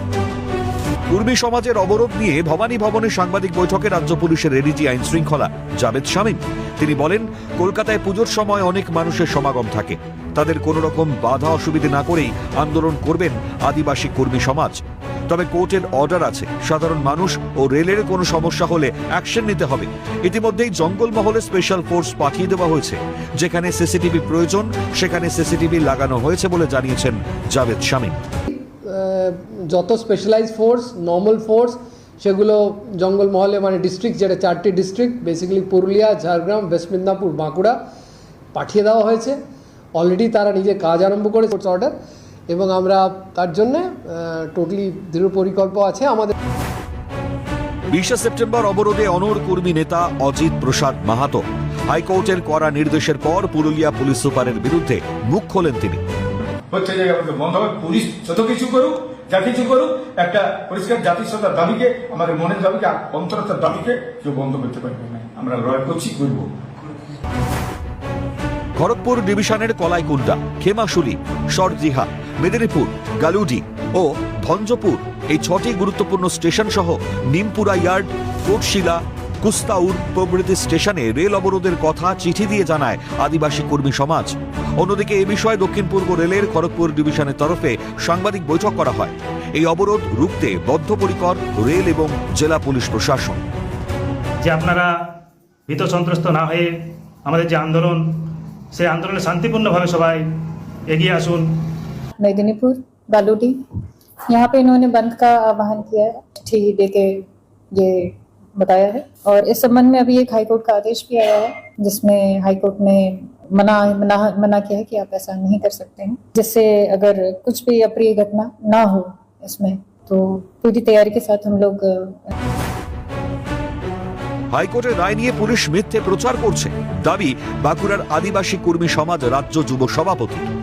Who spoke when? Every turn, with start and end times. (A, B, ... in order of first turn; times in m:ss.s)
0:01.1-0:28.2 A
0:28.5-0:37.8 B
0:38.5-0:39.4 B
0:39.9-0:41.9 B
0:42.5-0:46.3 B
0:47.9-0:56.0 A
0:56.7-1:06.5 C
1:08.8-1:33.4 A
1:34.4-1:34.9 D
1:35.7-1:40.3 D
1:40.9-1:41.7 D
1:42.2-1:43.6 E
1:44.3-2:02.3 E
2:04.5-2:10.4 A